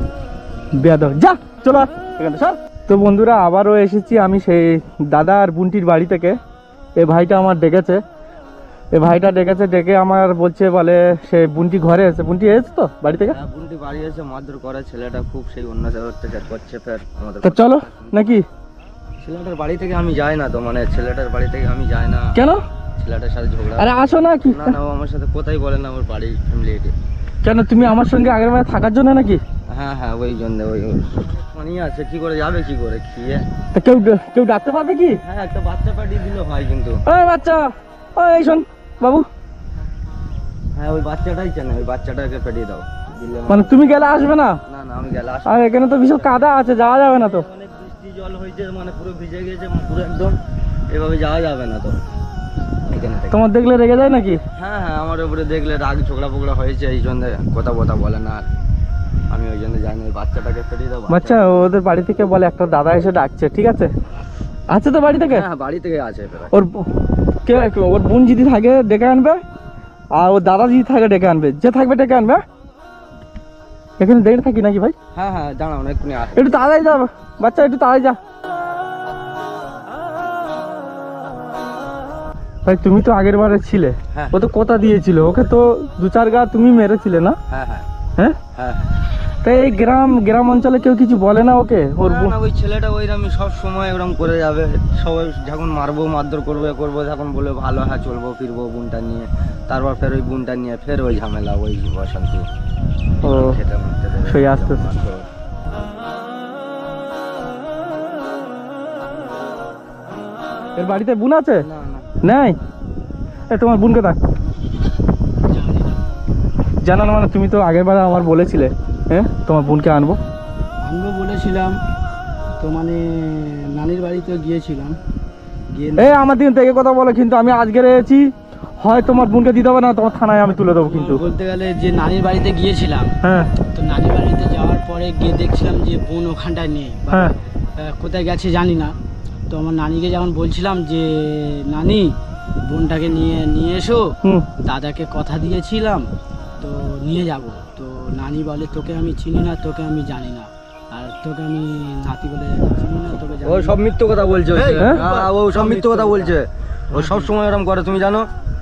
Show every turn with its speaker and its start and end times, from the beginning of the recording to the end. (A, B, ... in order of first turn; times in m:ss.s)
0:00.8-0:06.4 A
0:07.0-0:08.0 A
0:08.9-0:13.4 A
0:13.1-0:18.4 B
0:17.4-0:18.4 A
0:19.2-0:22.3 B
0:22.3-0:22.6 A
0:23.0-0:26.9 B
0:23.8-0:24.8 A
0:27.4-0:29.4 A
0:29.7-0:33.4 B
0:33.7-0:35.2 A
0:35.2-0:37.0 B
0:37.0-0:39.2 A
0:40.8-0:46.4 B
0:43.5-0:44.6 A
0:45.4-0:47.4 A
0:47.0-0:50.4 B
0:50.9-0:52.0 B
0:52.9-0:53.4 B
0:53.3-0:54.4 A
0:54.6-0:58.4 B
0:59.3-1:01.5 B
1:01.1-1:03.9 A
1:04.7-1:05.4 A
1:05.3-1:06.5 B
1:06.5-1:06.9 A
1:07.4-1:09.4 A
1:10.2-1:12.4 A
1:14.0-1:14.9 A
1:15.1-1:16.6 B
1:16.3-1:18.2 A
1:22.6-1:27.4 A
1:24.1-1:24.4 B
1:27.5-1:27.8 B
1:28.6-1:28.9 B
1:29.4-1:32.4 A
1:32.0-1:42.4 B
1:43.2-1:43.6 A
1:43.2-1:45.2 B
1:44.2-1:44.8 A
1:50.8-1:51.6 A
1:51.6-1:52.1 B
1:52.2-1:52.6 A
1:53.5-1:54.2 A
1:55.4-1:56.0 C
1:56.8-2:00.2 A
2:00.8-2:01.8 C
2:02.6-2:05.0 C
2:05.7-2:06.2 C
2:06.0-2:08.2 A
2:08.8-2:11.2 A
2:10.8-2:13.2 C
2:13.2-2:13.5 A
2:13.7-2:19.0 C
2:19.5-2:22.1 C
2:22.6-2:26.0 C
2:26.6-2:33.8 C
2:33.4-2:38.2 B
2:34.5-2:36.4 C
2:36.9-2:37.3 C